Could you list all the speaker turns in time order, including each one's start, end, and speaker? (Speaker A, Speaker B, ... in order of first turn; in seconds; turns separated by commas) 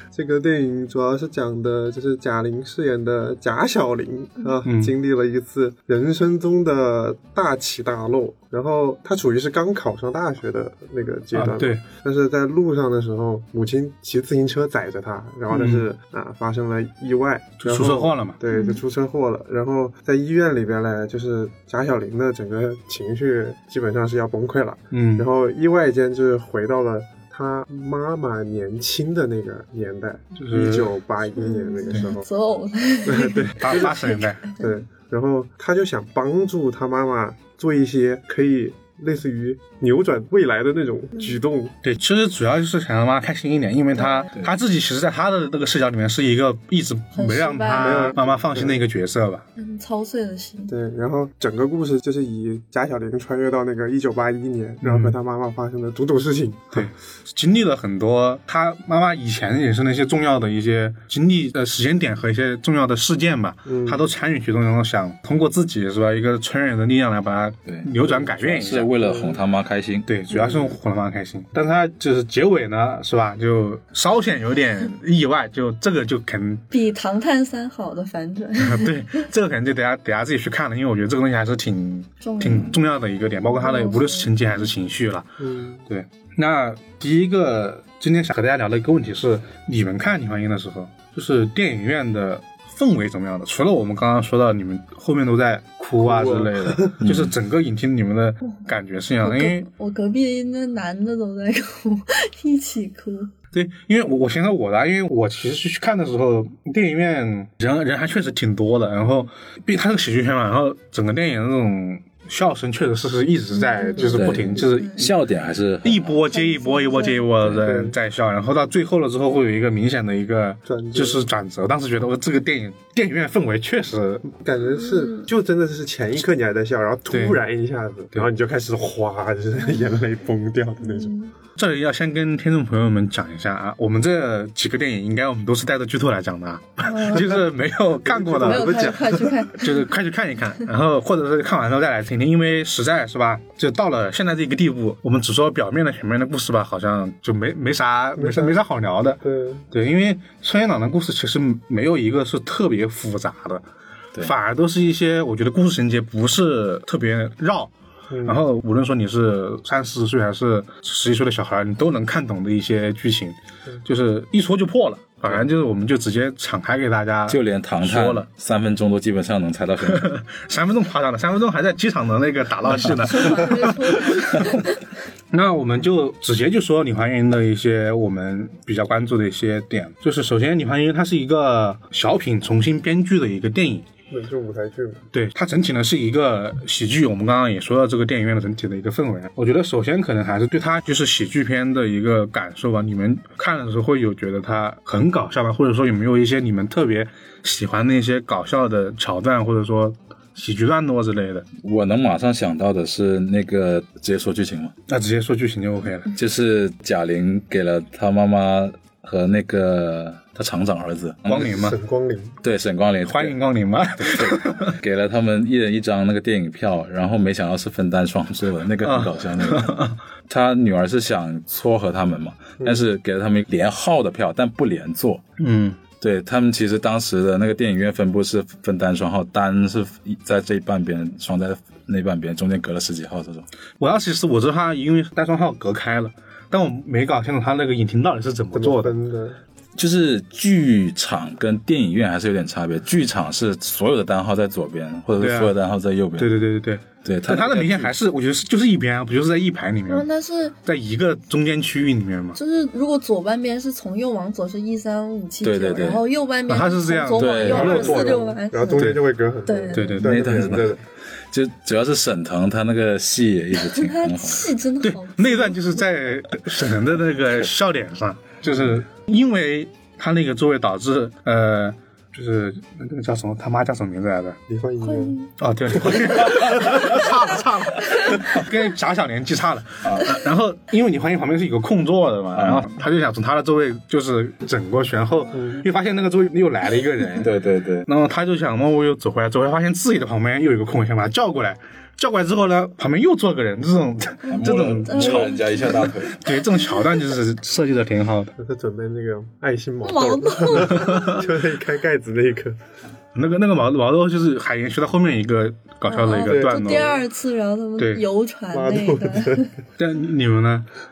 Speaker A: 0.1-32.2, Speaker B: 4.7-4.9, Speaker B: 11.3-11.8, Speaker B: 15.5-15.9, Speaker B: 17.6-18.4, Speaker C: 18.5-18.8, Speaker B: 24.9-25.3, Speaker B: 30.4-30.9, Speaker C: 31.4-34.8, Speaker A: 33.1-34.1, Speaker B: 33.5-34.4, Speaker A: 34.6-41.8, Speaker B: 41.8-49.4, Speaker C: 44.0-44.3, Speaker C: 47.1-48.2, Speaker A: 47.7-48.8, Speaker C: 49.6-50.7, Speaker A: 50.7-56.9, Speaker B: 54.8-55.1, Speaker B: 56.7-68.9, Speaker A: 63.7-64.0, Speaker D: 67.7-70.1, Speaker A: 69.0-69.4, Speaker B: 70.1-76.6, Speaker A: 70.3-70.7, Speaker C: 76.7-79.2, Speaker B: 78.6-85.3, Speaker C: 82.2-82.8, Speaker C: 83.5-84.6, Speaker A: 85.4-85.8, Speaker B: 85.9-99.7, Speaker A: 96.0-97.0, Speaker D: 97.0-97.3, Speaker C: 99.2-103.3, Speaker B: 103.5-115.2, Speaker C: 113.5-115.0, Speaker D: 114.1-116.2, Speaker A: 114.1-114.4, Speaker B: 115.8-124.3, Speaker C: 116.3-117.2, Speaker D: 117.4-117.7, Speaker A: 117.6-118.0, Speaker A: 120.7-121.3, Speaker A: 124.4-131.2, Speaker C: 124.7-125.3, Speaker B: 127.1-127.4, Speaker C: 129.6-129.9, Speaker C: 130.8-131.3, Speaker B: 131.6-153.6, Speaker C: 136.8-137.4, Speaker A: 138.0-139.4, Speaker C: 138.4-139.7, Speaker A: 148.2-148.6, Speaker A: 149.2-149.7, Speaker B: 154.2-157.7, Speaker A: 158.1-158.4, Speaker B: 158.2-168.3, Speaker D: 167.3-170.1, Speaker B: 169.8-174.5, Speaker C: 173.0-174.8, Speaker B: 175.3-183.9, Speaker A: 184.1-185.0, Speaker B: 185.1-201.5, Speaker D: 201.6-204.7, Speaker B: 204.9-206.1, Speaker D: 206.1-211.5, Speaker B: 211.3-211.8, Speaker A: 211.3-212.4, Speaker D: 212.4-213.4, Speaker B: 213.1-214.8, Speaker D: 214.0-225.2, Speaker B: 218.8-220.0, Speaker B: 225.4-225.8, Speaker D: 226.0-233.5, Speaker B: 233.8-238.9, Speaker A: 238.5-239.4, Speaker D: 239.8-246.3, Speaker B: 245.2-245.5, Speaker B: 246.2-250.1, Speaker D: 247.0-247.9, Speaker C: 249.9-250.6, Speaker B: 250.7-252.4, Speaker C: 252.4-260.1, Speaker D: 255.4-256.0, Speaker B: 256.5-258.2, Speaker D: 257.2-258.2, Speaker A: 257.4-260.8, Speaker B: 258.8-259.0, Speaker B: 259.7-260.4, Speaker D: 260.0-260.8, Speaker D: 261.3-264.5, Speaker C: 263.6-265.6, Speaker B: 264.8-274.4, Speaker A: 274.5-275.2, Speaker C: 274.8-275.3, Speaker B: 275.4-287.3, Speaker D: 282.3-282.6, Speaker A: 285.3-285.6, Speaker D: 287.1-287.9, Speaker B: 287.9-295.3, Speaker C: 294.3-295.8, Speaker D: 294.3-296.2, Speaker B: 296.1-298.3, Speaker A: 298.4-302.6, Speaker C: 299.8-301.2, Speaker B: 300.7-301.2, Speaker B: 303.1-307.0, Speaker C: 305.9-309.5, Speaker A: 306.1-307.0, Speaker B: 307.8-308.1, Speaker A: 308.5-309.5, Speaker B: 309.8-310.7